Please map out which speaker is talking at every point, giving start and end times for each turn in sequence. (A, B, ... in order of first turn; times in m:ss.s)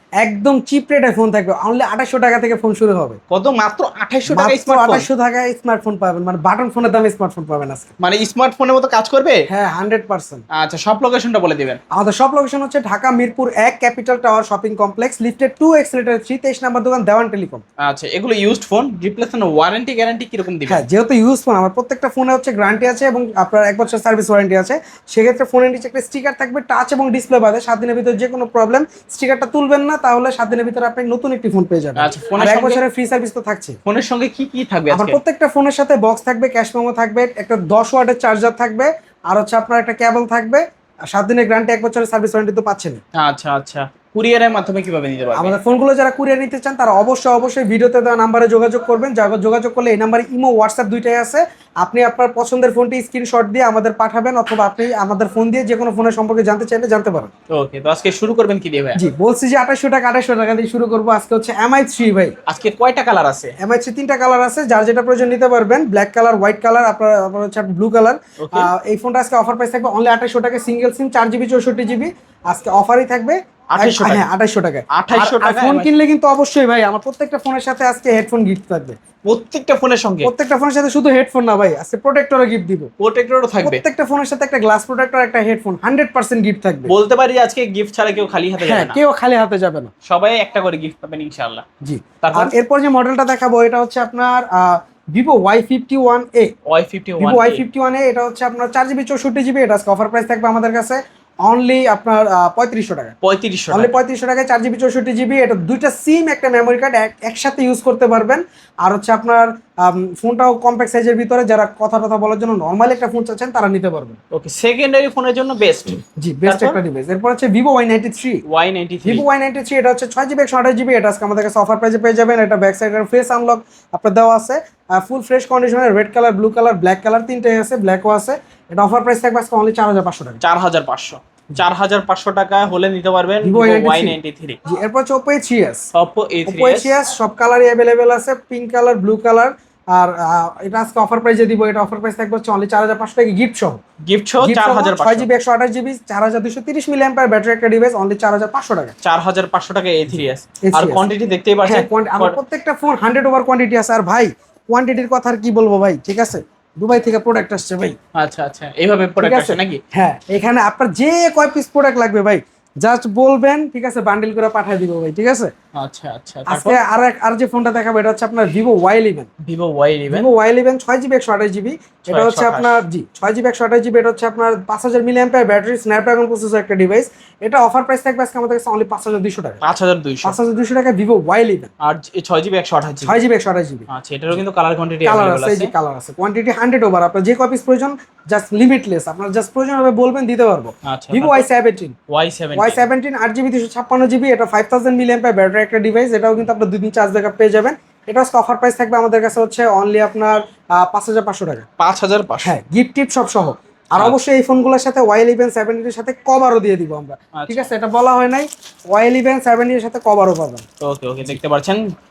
0:00.2-0:03.2 A
0:03.3-0:05.1 B
0:04.3-0:07.9 A
0:08.0-0:09.4 B
0:09.5-0:10.4 A
0:10.5-0:11.8 B
0:11.9-0:17.6 A
0:17.8-0:20.8 B
0:20.7-0:33.8 A
0:32.0-0:32.8 B
0:33.8-0:35.2 B
0:34.9-0:43.0 A
0:43.1-0:45.6 B
0:45.3-0:57.3 A
0:57.5-0:59.0 B
0:58.9-1:02.3 A
1:02.4-1:03.6 B
1:03.6-1:19.0 A
1:08.4-1:08.7 B
1:13.7-1:14.2 B
1:14.9-1:15.9 B
1:19.2-1:20.3 B
1:20.2-1:22.9 A
1:23.0-1:23.8 B
1:23.6-1:26.9 A
1:26.9-1:29.0 B
1:28.6-1:29.9 A
1:30.0-1:31.6 B
1:31.8-1:36.5 A
1:32.2-1:32.5 B
1:36.6-1:37.6 B
1:37.2-1:43.1 A
1:43.2-1:44.0 B
1:43.7-1:54.2 A
1:54.3-1:56.8 B
1:56.2-1:58.4 A
1:58.5-1:59.2 B
1:59.0-2:10.4 A
2:10.4-2:14.6 B
2:13.4-2:15.8 A
2:15.9-2:17.0 B
2:16.4-2:23.8 A
2:24.0-2:25.3 B
2:24.4-2:29.0 A
2:29.0-2:32.4 B
2:30.6-2:31.1 A
2:31.6-2:38.0 A
2:38.1-2:39.8 B
2:39.2-2:45.5 A
2:45.7-2:46.8 B
2:46.5-2:49.3 A
2:49.4-2:50.3 B
2:50.1-2:59.6 A
2:52.1-2:52.8 B
2:59.6-3:00.4 B
3:00.2-3:01.7 A
3:01.8-3:03.2 B
3:03.0-3:03.9 A
3:03.9-3:05.7 B
3:05.0-3:12.0 A
3:10.8-3:11.4 B
3:12.1-3:12.8 B
3:12.6-3:21.7 A
3:21.8-3:22.6 B
3:22.4-3:30.6 A
3:27.3-3:27.7 B
3:30.8-3:31.9 B